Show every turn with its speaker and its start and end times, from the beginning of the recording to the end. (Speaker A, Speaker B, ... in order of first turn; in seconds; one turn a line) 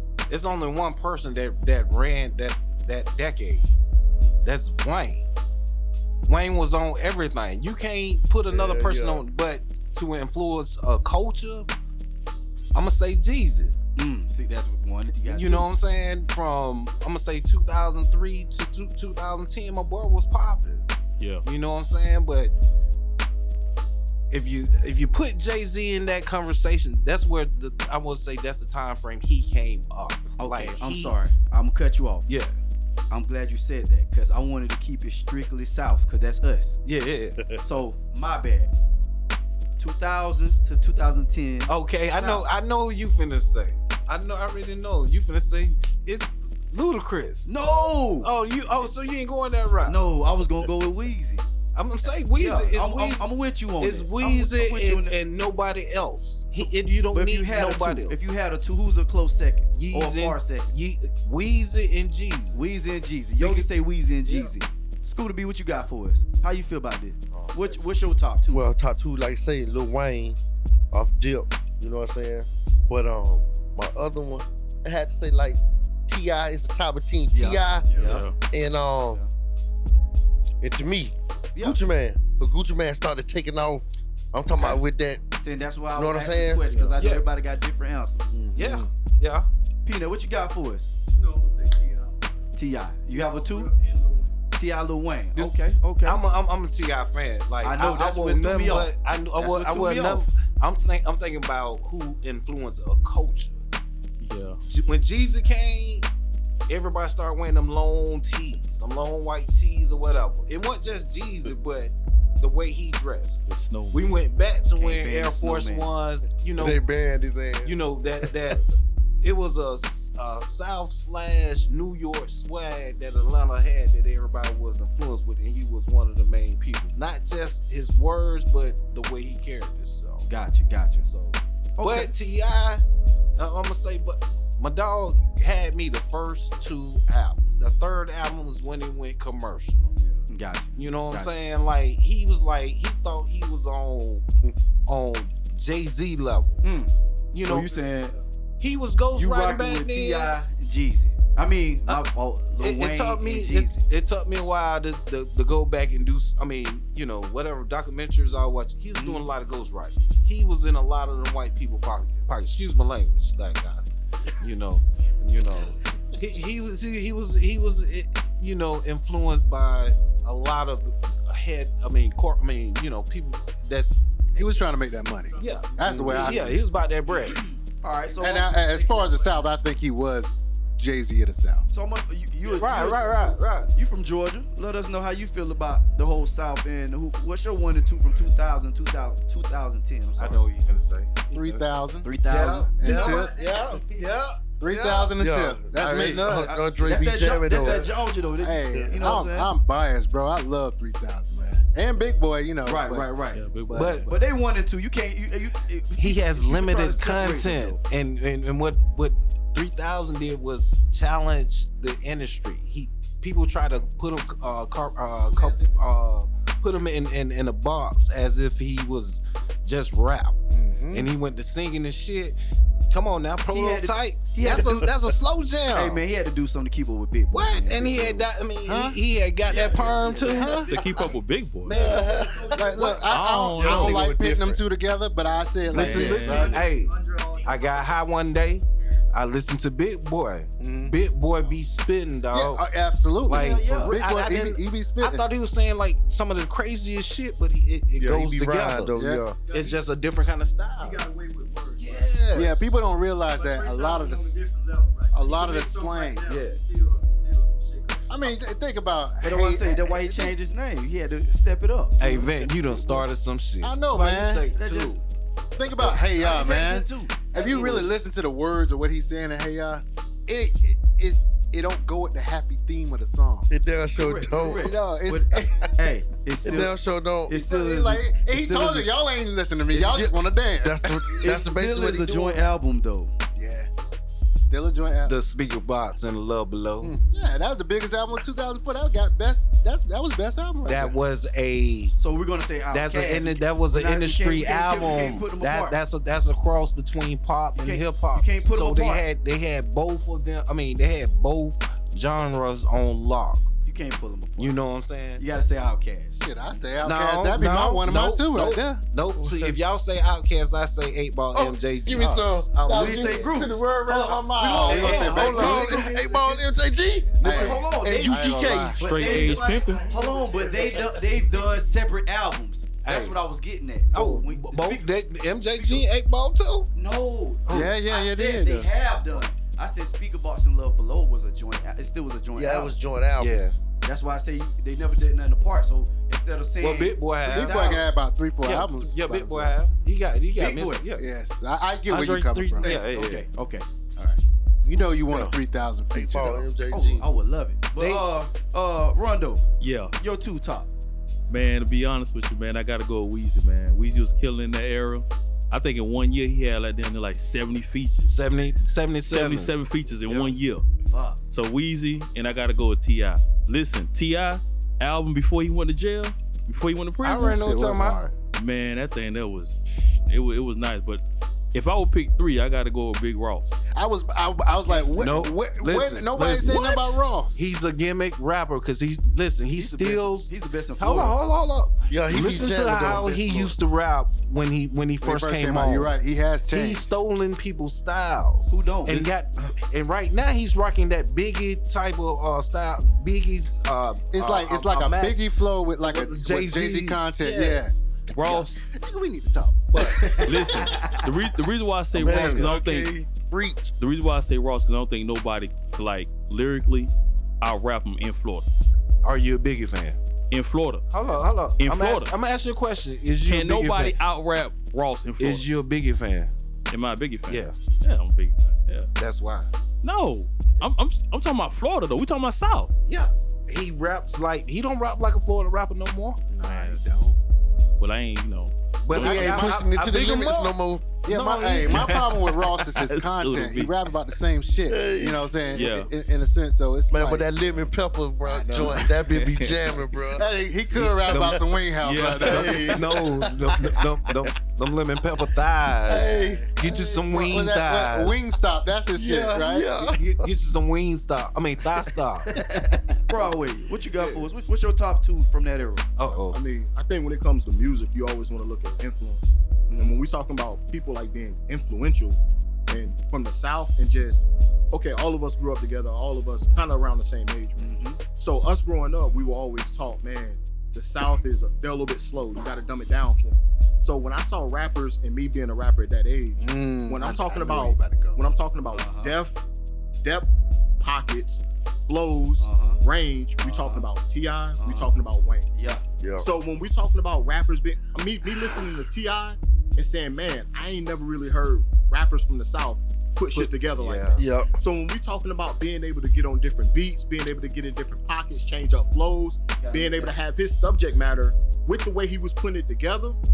Speaker A: 0.3-3.7
Speaker A: 4.4-5.3
Speaker A: 6.2-11.7
Speaker B: 8.5-9.2
Speaker A: 12.7-13.8
Speaker C: 13.9-15.7
Speaker A: 15.2-20.9
Speaker D: 21.2-21.4
Speaker A: 21.4-22.5
Speaker A: 24.3-31.1
Speaker C: 30.4-32.3
Speaker A: 32.3-32.5
Speaker C: 33.1-36.7
Speaker A: 36.8-37.4
Speaker C: 37.6-38.7
Speaker C: 39.8-42.5
Speaker A: 41.7-47.5
Speaker C: 47.5-48.3
Speaker A: 48.2-50.0
Speaker C: 49.8-51.5
Speaker A: 51.7-58.2
Speaker C: 52.3-55.1
Speaker C: 57.1-60.7
Speaker A: 59.8-62.6
Speaker C: 62.5-68.6
Speaker A: 63.4-63.7
Speaker A: 64.2-64.5
Speaker B: 67.3-67.8
Speaker B: 68.5-70.4
Speaker B: 70.9-79.2
Speaker C: 77.3-78.2
Speaker D: 78.0-78.3
Speaker B: 80.6-85.2
Speaker C: 85.4-88.2
Speaker B: 85.9-86.9
Speaker E: 88.3-88.9
Speaker A: 88.5-89.5
Speaker C: 89.8-90.9
Speaker F: 91.1-92.2
Speaker C: 92.5-93.7
Speaker F: 93.2-94.3
Speaker C: 94.5-96.2
Speaker A: 95.3-103.5
Speaker C: 97.6-100.2
Speaker D: 104.2-104.6
Speaker A: 104.7-106.1
Speaker A: 106.7-113.4
Speaker D: 113.5-114.1
Speaker A: 113.9-116.8
Speaker C: 114.7-115.9
Speaker B: 116.6-117.8
Speaker A: 117.6-118.6
Speaker A: 119.2-130.3
Speaker C: 130.2-131.1
Speaker A: 131.0-132.8
Speaker C: 131.8-132.1
Speaker A: 133.4-139.9
Speaker C: 140.3-141.3
Speaker A: 140.8-144.2
Speaker A: 144.8-146.6
Speaker C: 146.6-146.9
Speaker A: 147.3-147.8
Speaker C: 147.4-148.2
Speaker A: 148.6-150.3
Speaker C: 149.1-153.8
Speaker A: 152.6-174.0
Speaker C: 158.9-159.2
Speaker E: 174.3-176.6
Speaker A: 175.4-177.4
Speaker F: 175.5-175.7
Speaker C: 177.8-178.6
Speaker E: 178.2-181.6
Speaker F: 178.8-179.2
Speaker C: 181.7-190.4
Speaker A: 182.5-183.7
Speaker A: 190.2-191.7
Speaker E: 191.3-192.1
Speaker C: 192.0-192.8
Speaker A: 192.2-194.3
Speaker E: 192.8-193.4
Speaker E: 194.6-196.3
Speaker B: 194.6-197.9
Speaker A: 195.7-196.6
Speaker C: 196.2-199.5
Speaker A: 197.5-197.9
Speaker E: 198.4-203.1
Speaker B: 198.7-199.1
Speaker C: 202.7-203.4
Speaker D: 203.3-204.1
Speaker E: 203.7-204.2
Speaker A: 203.7-204.1
Speaker C: 204.1-207.8
Speaker A: 206.0-220.3
Speaker E: 220.5-221.1
Speaker A: 220.9-222.4
Speaker A: 222.9-226.0
Speaker C: 223.5-224.9
Speaker C: 225.7-228.2
Speaker A: 227.3-233.1
Speaker E: 228.6-229.0
Speaker C: 229.5-230.4
Speaker E: 230.2-230.7
Speaker D: 230.4-232.0
Speaker B: 231.8-232.6
Speaker E: 232.5-236.7
Speaker D: 233.0-234.1
Speaker B: 233.5-234.6
Speaker A: 235.7-242.6
Speaker D: 235.7-236.6
Speaker F: 236.4-237.6
Speaker E: 240.6-241.0
Speaker E: 242.3-245.3
Speaker A: 243.2-251.1
Speaker C: 243.3-243.9
Speaker B: 248.0-249.4
Speaker E: 248.9-249.2
Speaker F: 249.5-249.7
Speaker F: 250.8-252.1
Speaker A: 251.8-252.6
Speaker E: 252.3-254.4
Speaker F: 253.3-258.1
Speaker E: 255.1-256.4
Speaker A: 256.2-256.6
Speaker E: 258.1-260.3
Speaker C: 259.2-262.2
Speaker A: 262.0-265.0
Speaker E: 263.6-264.4
Speaker C: 264.5-265.0
Speaker E: 265.6-273.5
Speaker C: 265.8-267.9
Speaker B: 273.5-274.7
Speaker C: 273.9-278.9
Speaker E: 274.5-275.7
Speaker B: 276.4-277.3
Speaker E: 277.3-281.2
Speaker B: 279.7-282.5
Speaker C: 281.2-283.1
Speaker E: 283.3-283.7
Speaker E: 284.4-285.2
Speaker A: 285.1-286.9
Speaker E: 286.8-291.0
Speaker A: 290.6-291.9
Speaker C: 292.0-295.8
Speaker A: 292.7-303.5
Speaker C: 297.6-299.0
Speaker C: 303.6-304.6
Speaker A: 304.4-305.2
Speaker C: 305.2-306.2
Speaker E: 306.2-308.8
Speaker A: 306.8-315.9
Speaker B: 309.2-309.5
Speaker B: 311.3-319.3
Speaker C: 312.6-316.4
Speaker E: 314.5-315.7
Speaker C: 317.1-324.9
Speaker E: 317.2-318.8
Speaker D: 318.7-319.9
Speaker F: 319.1-320.4
Speaker B: 319.9-320.7
Speaker A: 322.8-323.2
Speaker A: 323.9-326.7
Speaker C: 325.4-325.8
Speaker C: 326.7-332.7
Speaker A: 327.5-327.7
Speaker E: 327.5-328.7
Speaker B: 332.3-333.4
Speaker A: 333.2-333.5
Speaker C: 333.8-337.9
Speaker A: 336.6-337.8
Speaker E: 337.2-339.6
Speaker A: 338.4-341.1
Speaker C: 340.4-340.8
Speaker E: 341.0-342.7
Speaker A: 341.9-343.2
Speaker C: 342.6-344.2
Speaker E: 344.6-346.5
Speaker B: 345.9-347.1
Speaker C: 346.7-349.4
Speaker A: 347.8-348.1
Speaker D: 349.6-349.9
Speaker C: 350.0-350.7
Speaker D: 351.3-358.1
Speaker A: 358.1-359.6
Speaker D: 359.1-360.6
Speaker C: 360.1-360.3
Speaker C: 360.9-361.2
Speaker D: 361.3-367.4
Speaker A: 367.0-368.0
Speaker E: 367.1-368.1
Speaker D: 368.3-371.0
Speaker D: 371.5-373.5
Speaker E: 373.7-377.4
Speaker A: 374.9-385.9
Speaker C: 379.5-381.1
Speaker B: 381.9-383.6
Speaker E: 385.0-386.9
Speaker A: 386.5-395.2
Speaker C: 388.5-389.1
Speaker E: 394.1-400.9
Speaker A: 395.8-397.6
Speaker D: 398.1-398.6
Speaker A: 399.7-400.7
Speaker D: 400.2-402.9
Speaker C: 400.6-401.0
Speaker B: 401.9-403.7
Speaker A: 402.0-402.5
Speaker D: 403.8-408.4
Speaker A: 409.0-410.0
Speaker D: 410.3-410.8
Speaker A: 410.9-413.9
Speaker D: 411.6-412.1
Speaker D: 413.2-415.4
Speaker A: 415.2-416.3
Speaker D: 416.7-418.9
Speaker A: 417.3-417.6
Speaker A: 419.0-419.5
Speaker D: 419.8-422.7
Speaker A: 422.9-426.3
Speaker E: 426.3-427.2
Speaker D: 427.8-429.5
Speaker A: 428.8-431.9
Speaker E: 428.9-429.6
Speaker B: 429.0-430.9
Speaker E: 431.0-437.6
Speaker D: 431.6-433.7
Speaker B: 434.7-435.8
Speaker D: 435.5-435.9
Speaker B: 436.9-440.2
Speaker E: 438.2-438.9
Speaker D: 438.6-439.7
Speaker E: 440.1-442.9
Speaker A: 441.0-441.4
Speaker B: 441.1-441.3
Speaker D: 441.8-442.8
Speaker B: 442.2-442.8
Speaker A: 442.4-448.4
Speaker B: 445.8-446.5
Speaker E: 446.5-449.7
Speaker B: 448.9-450.3
Speaker A: 449.8-452.3
Speaker C: 452.3-455.9
Speaker A: 453.9-454.3
Speaker A: 456.0-456.4
Speaker G: 456.3-479.4
Speaker C: 459.7-460.0
Speaker C: 467.6-468.0
Speaker E: 476.4-478.2
Speaker C: 478.7-479.1
Speaker G: 480.0-485.5
Speaker C: 482.4-482.8
Speaker C: 483.4-483.9
Speaker C: 484.6-484.9
Speaker C: 485.5-485.8
Speaker B: 486.0-486.3
Speaker G: 486.2-503.2
Speaker A: 493.3-494.2
Speaker B: 494.1-494.5
Speaker C: 499.6-500.1